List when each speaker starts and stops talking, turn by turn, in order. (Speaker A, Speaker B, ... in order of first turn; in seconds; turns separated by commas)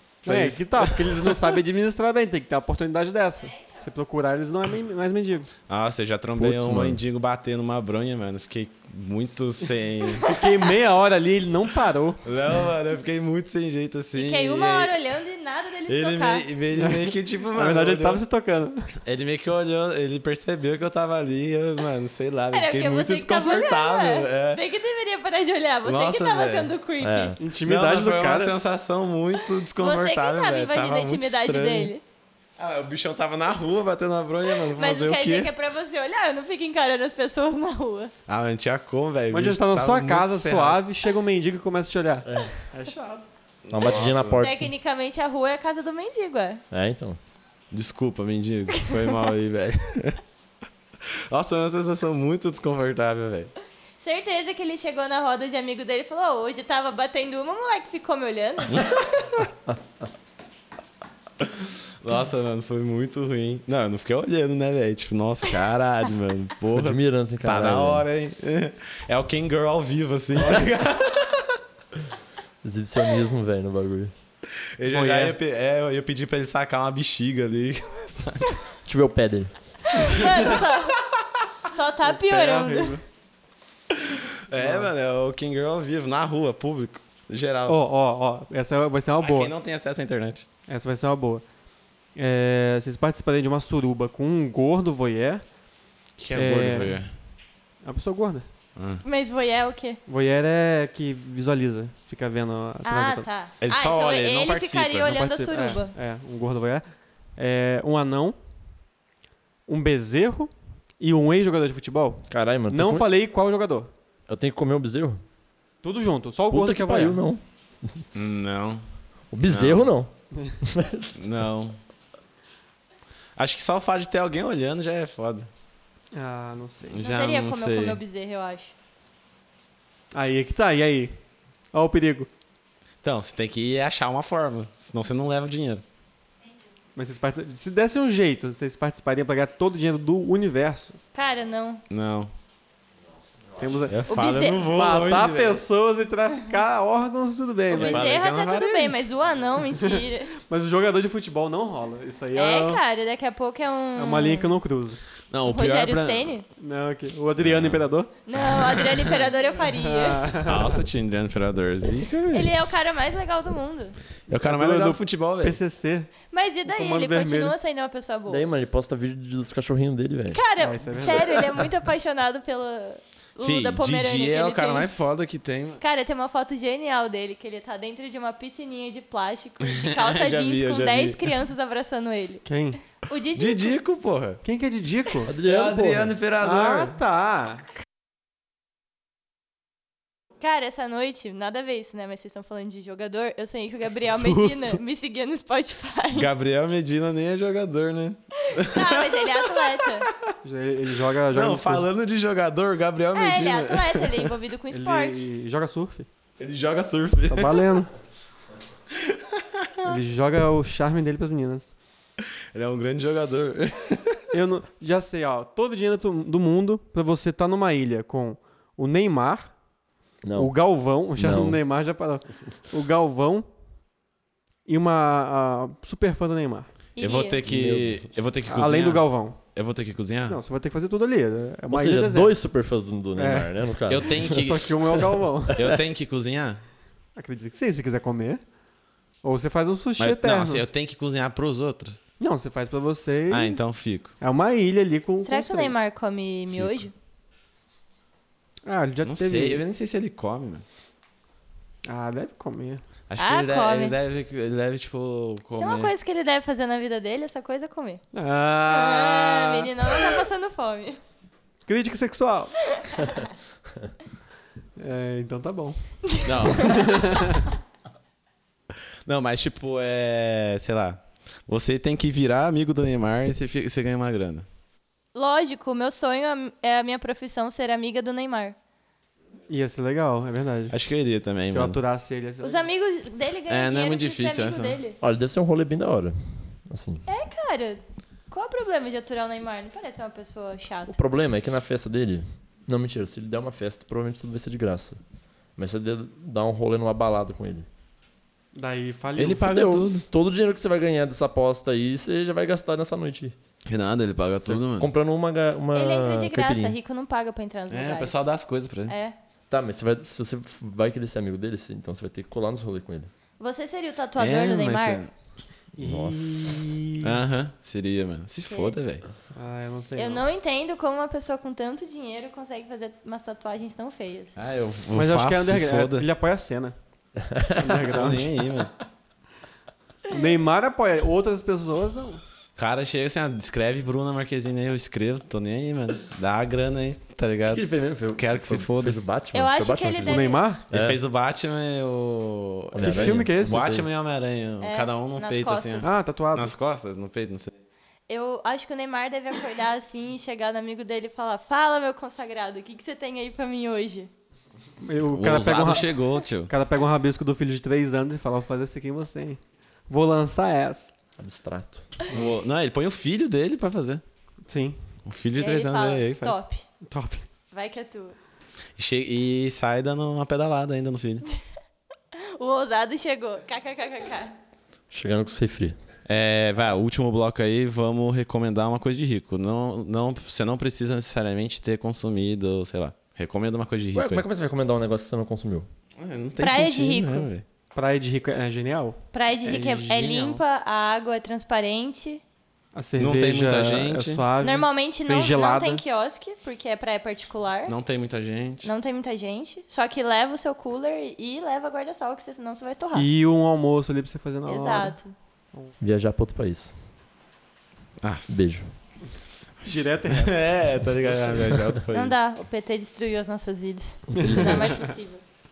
Speaker A: 0.2-1.6, Speaker B: 0.2-5.5, Speaker A: 5.7-10.5, Speaker C: 6.4-7.0, Speaker B: 10.2-12.2, Speaker A: 12.2-14.9, Speaker D: 14.2-16.4, Speaker A: 15.9-18.2, Speaker B: 16.8-18.9, Speaker A: 19.1-24.6, Speaker D: 22.5-27.4, Speaker A: 25.9-26.7, Speaker C: 27.0-27.4, Speaker B: 27.4-28.6, Speaker A: 27.6-31.9, Speaker D: 29.6-32.0, Speaker A: 32.6-35.5, Speaker D: 34.7-38.1, Speaker A: 38.3-40.8, Speaker B: 39.3-43.3, Speaker C: 42.2-42.5, Speaker A: 43.7-44.5, Speaker C: 43.7-44.7, Speaker D: 44.4-46.6, Speaker C: 46.7-47.2, Speaker A: 47.7-50.2, Speaker A: 51.3-53.5, Speaker D: 54.0-59.0, Speaker A: 58.7-59.5, Speaker A: 61.4-71.6, Speaker C: 66.7-68.1, Speaker B: 70.4-70.7, Speaker C: 72.6-74.1, Speaker A: 74.8-78.6, Speaker B: 74.9-75.4, Speaker C: 78.9-79.5, Speaker D: 79.9-81.0, Speaker B: 80.2-80.5, Speaker D: 81.7-83.0, Speaker B: 82.1-83.0, Speaker A: 83.9-87.8, Speaker B: 84.6-84.9, Speaker B: 87.7-89.5, Speaker A: 89.2-90.5, Speaker B: 90.7-91.5, Speaker B: 92.2-95.4, Speaker A: 96.2-97.1, Speaker B: 96.3-97.0, Speaker B: 97.8-98.5, Speaker A: 98.8-99.0, Speaker D: 99.0-100.0, Speaker B: 100.1-103.2, Speaker D: 102.8-105.9, Speaker A: 103.6-105.2, Speaker B: 105.1-108.4, Speaker B: 109.7-113.9, Speaker C: 112.3-113.1, Speaker C: 114.3-115.2, Speaker B: 115.8-117.2, Speaker C: 116.5-117.4, Speaker A: 118.2-118.8, Speaker C: 119.3-121.2, Speaker A: 119.5-119.9, Speaker A: 121.2-121.8, Speaker A: 123.4-125.5, Speaker B: 126.1-127.0, Speaker A: 126.9-128.0, Speaker D: 127.0-128.7, Speaker B: 130.1-131.2, Speaker B: 131.7-132.3, Speaker A: 133.0-135.8, Speaker B: 136.9-141.0, Speaker D: 141.1-141.8, Speaker A: 141.9-142.3, Speaker B: 143.6-144.0, Speaker A: 143.9-145.6, Speaker D: 144.1-144.7, Speaker B: 144.7-148.2, Speaker A: 147.7-149.1, Speaker D: 147.7-150.3, Speaker B: 149.8-152.8, Speaker D: 152.3-154.5, Speaker B: 154.0-155.0, Speaker A: 155.3-156.3, Speaker D: 155.5-156.4, Speaker B: 156.6-158.1, Speaker A: 157.4-157.8, Speaker D: 158.2-160.3, Speaker A: 158.5-159.0, Speaker B: 159.7-160.8, Speaker A: 160.5-162.5, Speaker D: 162.3-164.0, Speaker A: 164.3-165.6, Speaker B: 164.3-166.1, Speaker D: 166.3-168.4, Speaker B: 166.7-167.6, Speaker C: 168.3-170.4, Speaker D: 170.3-174.9, Speaker B: 170.6-171.5, Speaker A: 173.4-175.8, Speaker D: 175.8-183.7, Speaker A: 179.8-181.3, Speaker B: 182.5-182.8, Speaker A: 183.3-184.4, Speaker B: 184.4-185.3, Speaker C: 185.3-186.2, Speaker A: 185.5-186.9, Speaker B: 186.4-187.7, Speaker D: 190.4-196.3, Speaker A: 194.0-194.8, Speaker A: 196.1-199.6, Speaker D: 198.5-200.1, Speaker B: 200.4-201.8, Speaker A: 201.3-204.3, Speaker D: 203.1-205.3, Speaker B: 204.7-206.1, Speaker A: 206.4-207.8, Speaker B: 207.3-207.9, Speaker A: 209.1-209.7, Speaker B: 209.8-211.7, Speaker A: 212.5-214.2, Speaker B: 214.3-219.5, Speaker C: 220.2-220.6, Speaker B: 220.4-223.5, Speaker C: 221.2-221.6, Speaker B: 224.7-226.7, Speaker D: 227.0-227.4, Speaker A: 227.0-230.4, Speaker C: 227.5-228.1, Speaker B: 228.5-229.4, Speaker B: 230.3-232.3, Speaker C: 231.7-234.4, Speaker B: 233.2-233.5, Speaker A: 233.9-236.6, Speaker B: 234.3-235.7, Speaker B: 237.2-238.4, Speaker B: 239.2-240.6, Speaker A: 240.0-242.0, Speaker B: 242.2-243.6, Speaker A: 243.3-244.1, Speaker B: 244.2-245.8, Speaker D: 245.2-246.9, Speaker B: 248.7-249.6, Speaker A: 249.0-250.7, Speaker B: 251.8-252.8, Speaker A: 253.1-255.9, Speaker D: 253.2-253.9, Speaker D: 255.6-258.0, Speaker B: 258.1-259.7, Speaker D: 258.7-261.0, Speaker B: 261.7-262.5, Speaker B: 264.8-265.8, Speaker A: 266.2-267.1, Speaker B: 266.5-267.4, Speaker A: 269.1-274.5, Speaker D: 275.1-278.6, Speaker B: 279.5-280.7, Speaker A: 280.7-281.8, Speaker B: 281.5-282.7, Speaker D: 282.4-285.0, Speaker A: 283.5-284.8, Speaker C: 285.0-287.0, Speaker D: 287.1-291.0, Speaker C: 290.9-295.0, Speaker C: 295.6-297.7, Speaker B: 298.6-299.7, Speaker A: 299.2-300.1, Speaker C: 299.4-303.4, Speaker A: 303.7-304.9, Speaker C: 304.4-306.8, Speaker D: 305.8-308.2, Speaker A: 307.7-308.9, Speaker D: 308.9-309.1, Speaker C: 309.5-313.1, Speaker D: 313.4-315.1, Speaker A: 314.2-315.1, Speaker B: 315.8-317.2, Speaker C: 315.8-316.8, Speaker A: 317.0-319.1, Speaker D: 318.5-318.8, Speaker B: 319.3-320.3, Speaker D: 320.0-324.4, Speaker A: 324.4-326.1, Speaker B: 324.9-326.8, Speaker C: 327.3-327.7, Speaker B: 327.5-328.4, Speaker A: 327.8-328.7, Speaker B: 330.1-332.2, Speaker A: 332.6-339.0, Speaker C: 337.5-341.0, Speaker D: 339.3-340.4, Speaker B: 340.1-340.6, Speaker A: 340.7-347.5, Speaker C: 342.7-343.9, Speaker B: 342.8-343.6, Speaker D: 344.6-345.9, Speaker B: 345.8-346.6, Speaker D: 348.1-354.1, Speaker B: 354.8-360.9, Speaker A: 355.1-356.5, Speaker C: 361.2-361.9, Speaker A: 362.1-364.0, Speaker B: 364.5-364.8, Speaker A: 365.1-366.4, Speaker D: 365.4-366.7, Speaker B: 366.9-367.3, Speaker D: 367.5-368.2, Speaker A: 368.8-371.3, Speaker D: 372.4-374.3, Speaker C: 374.9-375.8, Speaker A: 376.1-384.2, Speaker C: 383.9-385.7, Speaker A: 386.0-387.4, Speaker D: 386.4-387.3, Speaker B: 387.7-390.4, Speaker D: 389.1-392.2, Speaker B: 392.8-395.8, Speaker A: 393.0-394.2, Speaker D: 394.4-397.8, Speaker A: 397.7-398.7, Speaker D: 398.6-403.1, Speaker B: 402.9-405.0, Speaker D: 404.5-405.1, Speaker C: 405.8-406.7, Speaker A: 408.0-408.5, Speaker C: 408.3-408.7, Speaker A: 409.6-412.1, Speaker B: 409.6-410.6, Speaker D: 411.9-415.2, Speaker C: 414.1-414.8, Speaker B: 414.2-414.8